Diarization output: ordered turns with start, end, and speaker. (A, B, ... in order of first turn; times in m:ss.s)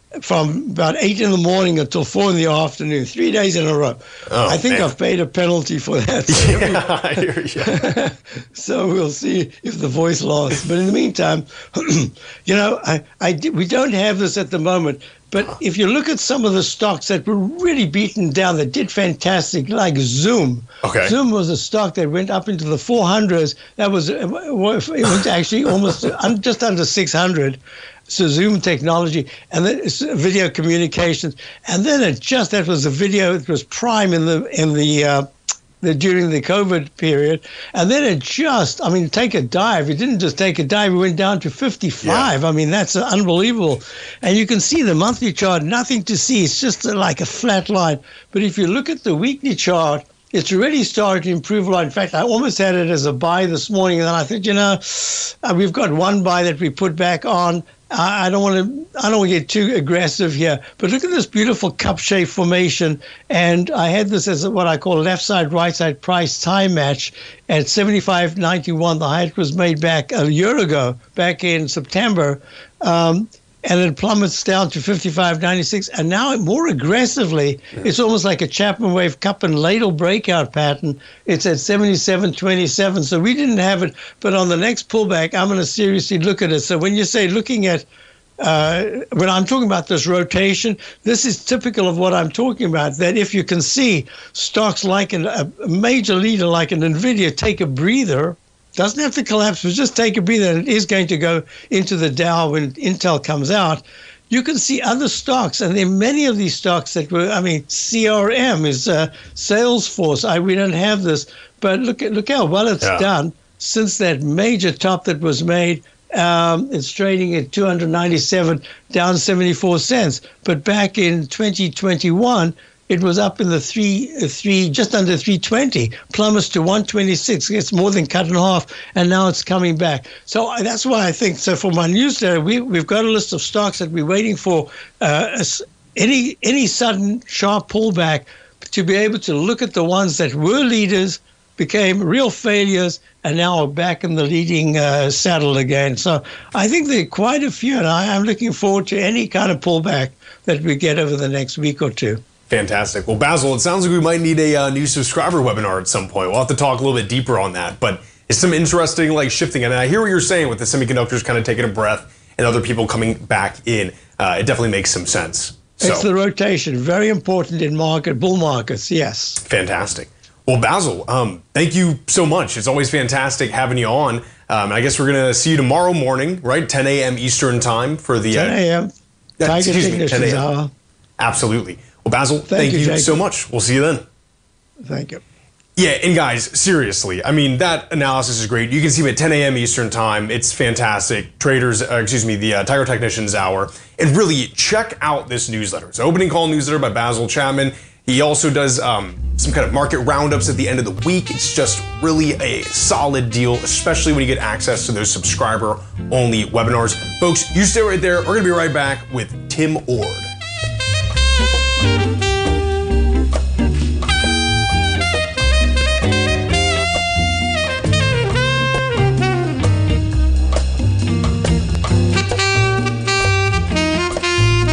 0:00.2-0:06.8 A
0:04.3-0:04.9 B
0:06.3-0:07.9 B
0:07.6-0:35.3 A
0:20.8-0:21.1 B
0:35.8-1:27.8 A
0:42.0-0:42.3 B
1:28.4-2:32.2 A
1:52.8-1:53.1 B
2:32.5-2:46.0 B
2:45.8-2:49.4 A
2:49.4-2:58.6 B
2:58.3-2:58.9 A
2:59.4-3:00.5 B
2:59.4-3:00.7 A
3:01.2-3:04.0 B
3:02.5-3:03.2 A
3:04.8-3:05.2 A
3:05.8-3:30.3 B